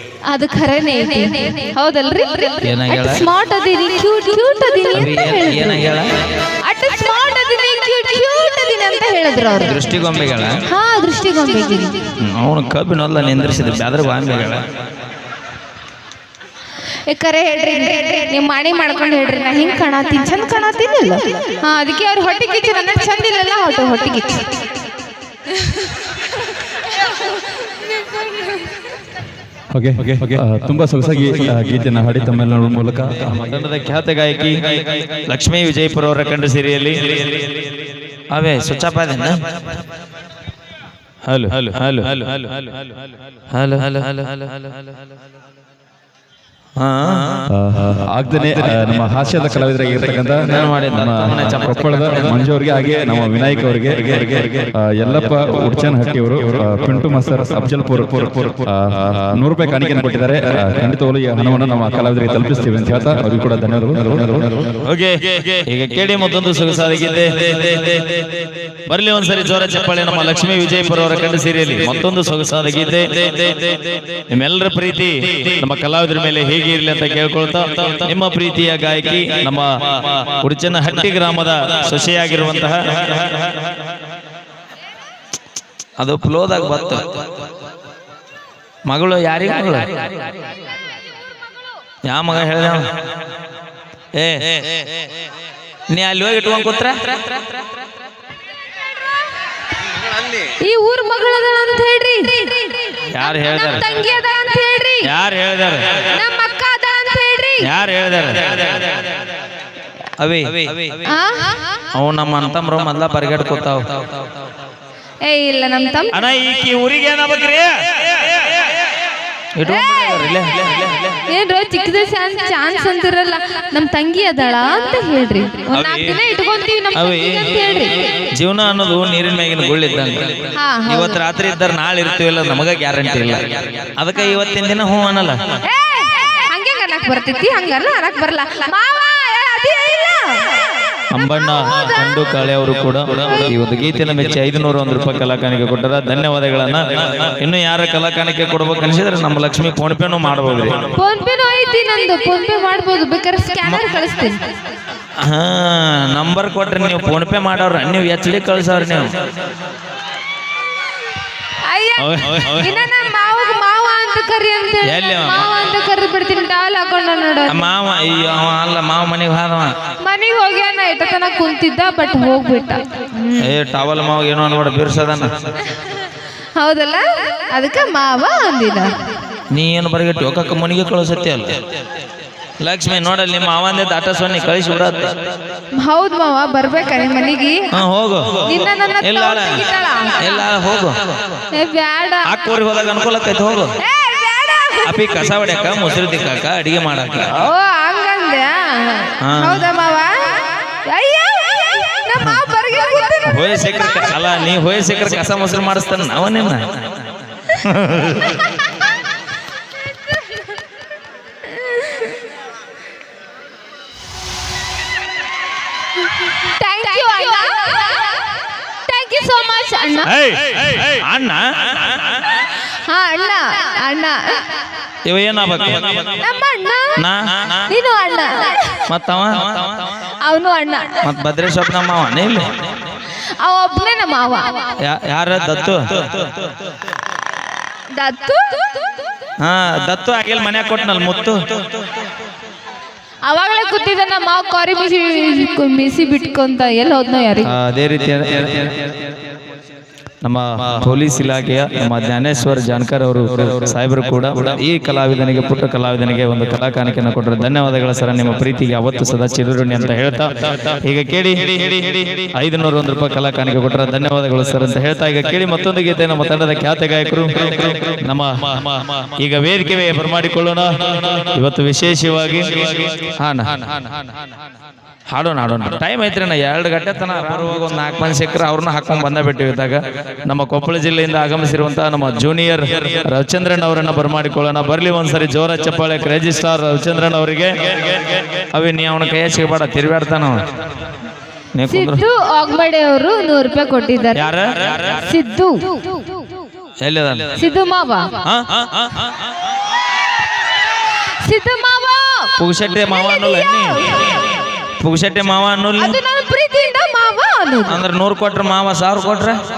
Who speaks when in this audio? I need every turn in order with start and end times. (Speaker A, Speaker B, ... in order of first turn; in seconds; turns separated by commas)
Speaker A: 0.3-5.9, Speaker B: 2.6-3.2, Speaker B: 4.9-6.1, Speaker A: 6.6-9.9, Speaker B: 9.6-10.6, Speaker A: 10.7-12.0, Speaker B: 12.2-14.6, Speaker A: 17.1-24.4, Speaker C: 29.7-33.4, Speaker B: 33.2-34.6, Speaker B: 35.3-37.4, Speaker B: 38.3-39.4, Speaker B: 41.3-42.9, Speaker B: 43.5-44.7, Speaker B: 46.8-47.5, Speaker C: 47.5-64.8, Speaker B: 50.5-52.2, Speaker B: 64.8-67.9, Speaker B: 68.9-83.5, Speaker B: 86.0-87.1, Speaker B: 88.9-89.9, Speaker B: 92.1-92.9, Speaker B: 94.2-94.6, Speaker B: 95.9-97.2, Speaker A: 100.6-105.1, Speaker B: 103.1-103.8, Speaker B: 105.0-105.9, Speaker A: 106.1-107.7, Speaker B: 107.6-108.8, Speaker B: 110.2-111.0, Speaker A: 111.1-111.6, Speaker B: 111.9-114.1, Speaker A: 115.2-116.1, Speaker B: 116.1-117.8, Speaker B: 119.6-121.2, Speaker A: 119.7-120.3, Speaker A: 121.3-128.1, Speaker B: 125.7-126.2, Speaker B: 126.9-135.6, Speaker A: 130.6-131.2, Speaker A: 135.6-140.5, Speaker B: 141.1-150.9, Speaker A: 141.5-142.1, Speaker A: 151.0-154.4, Speaker B: 155.2-159.1, Speaker A: 161.6-167.7, Speaker B: 162.0-162.8, Speaker B: 164.8-165.5, Speaker B: 167.5-169.8, Speaker A: 170.0-173.5, Speaker B: 173.4-175.4, Speaker A: 176.6-178.9, Speaker B: 179.5-181.6, Speaker B: 182.6-185.3, Speaker A: 185.8-187.7, Speaker B: 187.7-189.6, Speaker A: 188.5-190.4, Speaker B: 190.2-191.2, Speaker A: 191.5-192.3, Speaker B: 192.2-193.7, Speaker A: 193.8-195.1, Speaker B: 194.8-197.3, Speaker A: 197.3-204.2, Speaker B: 199.2-199.7, Speaker B: 203.2-207.0, Speaker B: 207.5-208.4, Speaker A: 211.6-212.1, Speaker A: 216.4-218.2, Speaker A: 218.9-220.1, Speaker B: 220.1-222.0, Speaker A: 222.9-224.4, Speaker B: 225.1-226.1, Speaker A: 226.2-228.8, Speaker B: 227.0-227.7, Speaker B: 228.9-229.9, Speaker A: 230.2-231.0, Speaker B: 231.0-232.5, Speaker A: 233.4-234.8, Speaker B: 234.8-236.3, Speaker A: 237.9-238.8, Speaker B: 239.4-241.4, Speaker A: 243.3-247.5, Speaker B: 247.5-248.9, Speaker B: 250.2-260.3, Speaker B: 260.8-273.9, Speaker B: 275.1-288.0, Speaker B: 288.5-290.4, Speaker B: 291.6-292.0, Speaker A: 291.7-294.3, Speaker B: 294.1-295.1, Speaker A: 294.9-296.1, Speaker B: 296.8-297.4, Speaker A: 297.4-298.2, Speaker B: 298.2-299.1, Speaker A: 301.2-302.3, Speaker B: 302.4-303.8, Speaker A: 302.9-304.0, Speaker B: 304.8-306.0, Speaker A: 305.8-307.8, Speaker B: 307.7-309.4